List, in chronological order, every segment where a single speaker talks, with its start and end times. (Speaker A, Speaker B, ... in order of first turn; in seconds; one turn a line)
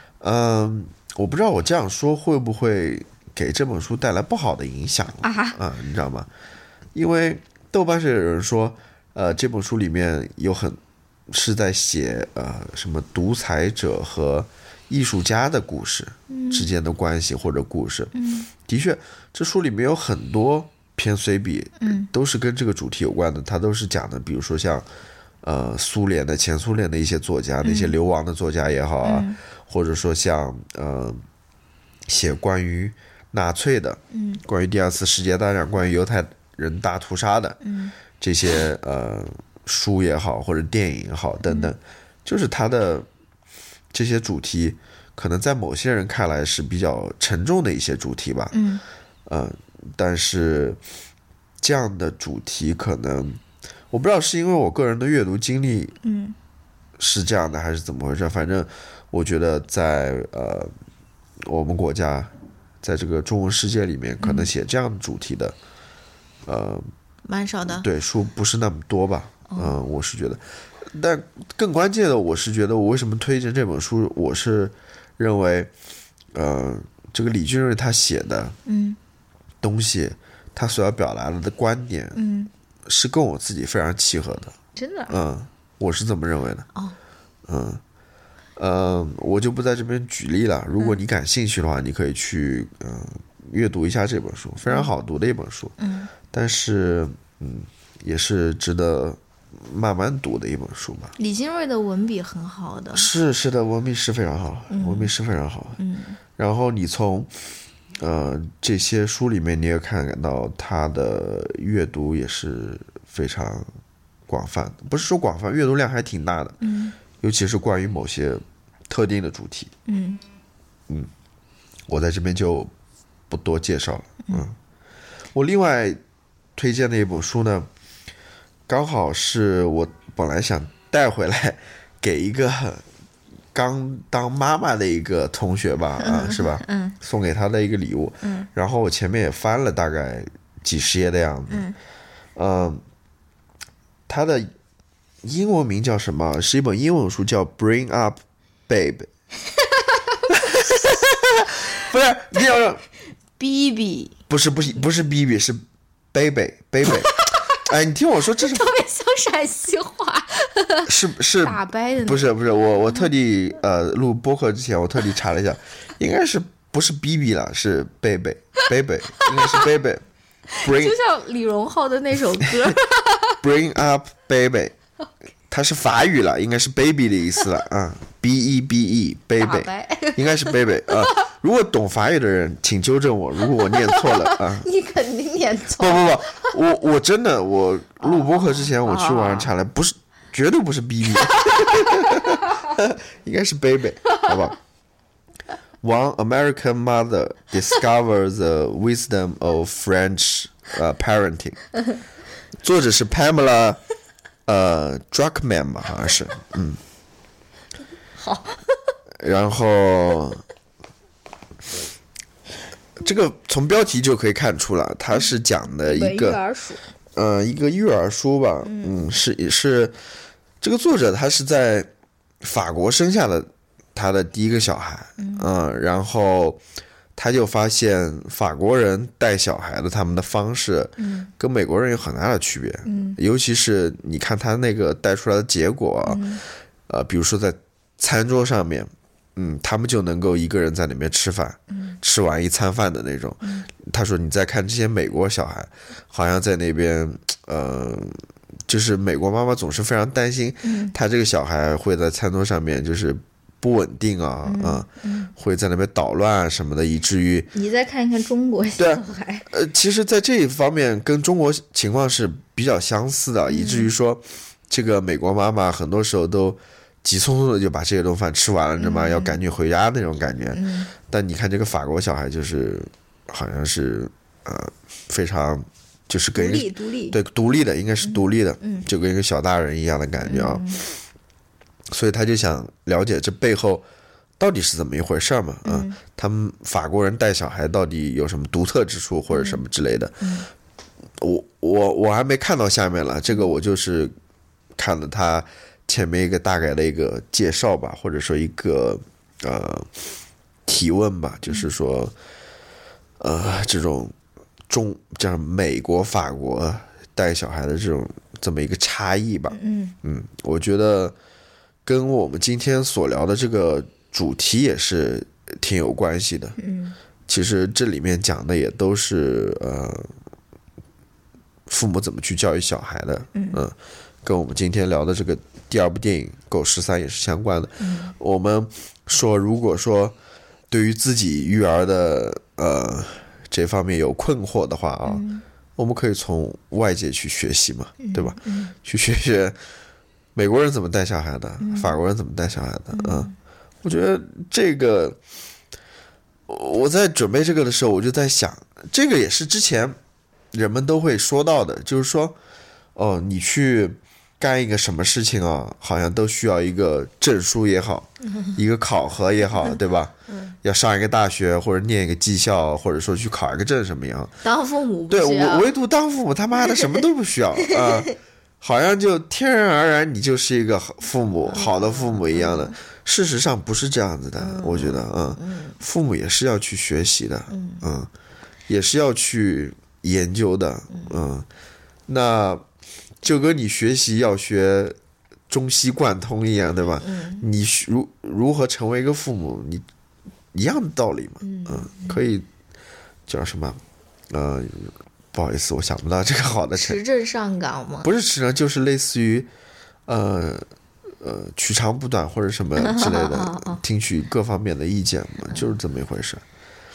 Speaker A: 0.2-6.3
Speaker B: 5.2-5.6
Speaker A: 7.0-24.9
Speaker B: 16.3-16.7
Speaker B: 18.1-18.5
Speaker B: 21.8-22.1
Speaker A: 25.4-31.2
Speaker B: 27.6-27.9
Speaker B: 29.0-29.4
Speaker A: 32.1-37.6
Speaker B: 34.1-34.4
Speaker B: 37.6-37.9
Speaker A: 38.2-43.1
Speaker B: 41.5-41.7
Speaker A: 43.9-48.6
Speaker B: 48.5-48.8
Speaker A: 49.3-50.8
Speaker A: 51.6-56.0
Speaker B: 56.0-56.4
Speaker A: 57.0-60.7
Speaker A: 61.4-62.3
Speaker A: 62.8-65.5
Speaker B: 64.2-64.5
Speaker A: 66.5-66.8
Speaker B: 67.2-67.9
Speaker A: 67.7-75.7
Speaker B: 69.5-69.8
Speaker A: 76.3-78.6
Speaker B: 78.7-79.0
Speaker A: 79.6-82.2
Speaker B: 82.1-82.5
Speaker A: 82.9-84.5
Speaker B: 84.8-85.2
Speaker A: 85.1-86.7
Speaker A: 87.5-87.8
Speaker A: 88.6-95.8
Speaker B: 95.8-96.1
Speaker A: 96.3-101.1
Speaker B: 101.2-103.1
Speaker A: 102.9-105.8
Speaker B: 104.7-105.1
Speaker B: 105.8-106.2
Speaker A: 106.4-107.3
Speaker A: 108.0-113.7
Speaker A: 114.3-116.6
Speaker B: 116.6-117.0
Speaker A: 117.2-119.7
Speaker B: 119.9-120.2
Speaker A: 121.9-122.7
Speaker A: 123.3-124.6
Speaker A: 125.3-126.0
Speaker A: 126.5-127.7
Speaker A: 128.7-132.8
Speaker A: 133.5-141.7
Speaker B: 136.0-137.0
Speaker B: 138.2-138.5
Speaker B: 141.5-141.8
Speaker A: 142.4-142.8
Speaker A: 144.1-144.5
Speaker A: 145.2-149.1
Speaker B: 149.5-151.5
Speaker A: 150.3-151.2
Speaker A: 151.7-152.8
Speaker B: 153.4-154.2
Speaker A: 154.3-158.7
Speaker B: 156.8-157.6
Speaker B: 158.3-162.3
Speaker A: 160.9-170.0
Speaker B: 169.2-169.7
Speaker B: 170.5-173.4
Speaker A: 170.6-171.0
Speaker A: 173.4-174.8
Speaker A: 175.5-184.7
Speaker B: 179.4-181.3
Speaker B: 183.5-186.5
Speaker A: 185.8-194.6
Speaker B: 188.0-189.5
Speaker B: 191.3-192.4
Speaker A: 195.8-201.7
Speaker A: 202.6-203.8
Speaker A: 204.5-206.8
Speaker B: 208.2-208.8
Speaker A: 209.2-210.4
Speaker A: 213.0-216.4
Speaker B: 215.8-216.8
Speaker A: 217.1-220.0
Speaker B: 218.6-219.1
Speaker A: 220.6-221.9
Speaker A: 222.4-226.6
Speaker B: 225.2-225.5
Speaker A: 227.2-236.3
Speaker B: 231.0-231.3
Speaker B: 232.8-233.2
Speaker B: 236.1-236.4
Speaker A: 236.9-257.5
Speaker B: 241.7-242.0
Speaker B: 243.4-243.7
Speaker B: 250.6-250.9
Speaker B: 254.4-255.3
Speaker B: 257.5-259.5
Speaker A: 258.8-280.9
Speaker B: 263.5-263.9
Speaker B: 268.8-269.4
Speaker B: 270.5-270.9
Speaker B: 276.3-277.2
Speaker B: 278.0-278.9
Speaker B: 280.2-280.8
Speaker A: 281.9-283.8
Speaker A: 284.4-290.3
Speaker B: 285.6-286.0
Speaker B: 289.3-289.6
Speaker B: 290.2-290.5
Speaker A: 291.2-294.1
Speaker A: 294.8-300.1
Speaker A: 300.7-302.1
Speaker A: 303.2-304.1
Speaker A: 304.7-311.1
Speaker B: 309.5-310.0
Speaker A: 311.9-316.6
Speaker B: 316.6-317.0
Speaker A: 317.3-320.1
Speaker A: 321.7-330.1
Speaker B: 323.3-323.6
Speaker B: 327.8-328.1
Speaker A: 330.7-335.2
Speaker B: 335.0-335.4
Speaker A: 335.8-339.6
Speaker B: 338.0-338.7
Speaker A: 340.4-343.3
Speaker B: 341.6-342.0
Speaker B: 342.9-343.3
Speaker A: 343.8-345.2
Speaker A: 346.5-350.0
Speaker A: 350.5-352.4
Speaker A: 352.9-364.4
Speaker B: 360.3-360.6
Speaker B: 364.4-365.7
Speaker A: 365.1-378.1
Speaker B: 367.7-368.1
Speaker B: 371.5-372.8
Speaker B: 374.4-375.8
Speaker B: 377.5-377.9
Speaker A: 378.7-381.5
Speaker B: 380.9-381.2
Speaker A: 382.1-382.7
Speaker A: 383.2-385.0
Speaker A: 385.5-389.9
Speaker B: 387.0-387.5
Speaker A: 390.5-392.5
Speaker B: 391.4-392.2
Speaker A: 393.3-397.0
Speaker B: 396.8-398.1
Speaker A: 398.0-399.5
Speaker A: 400.1-400.7
Speaker A: 401.2-406.4
Speaker B: 402.8-403.8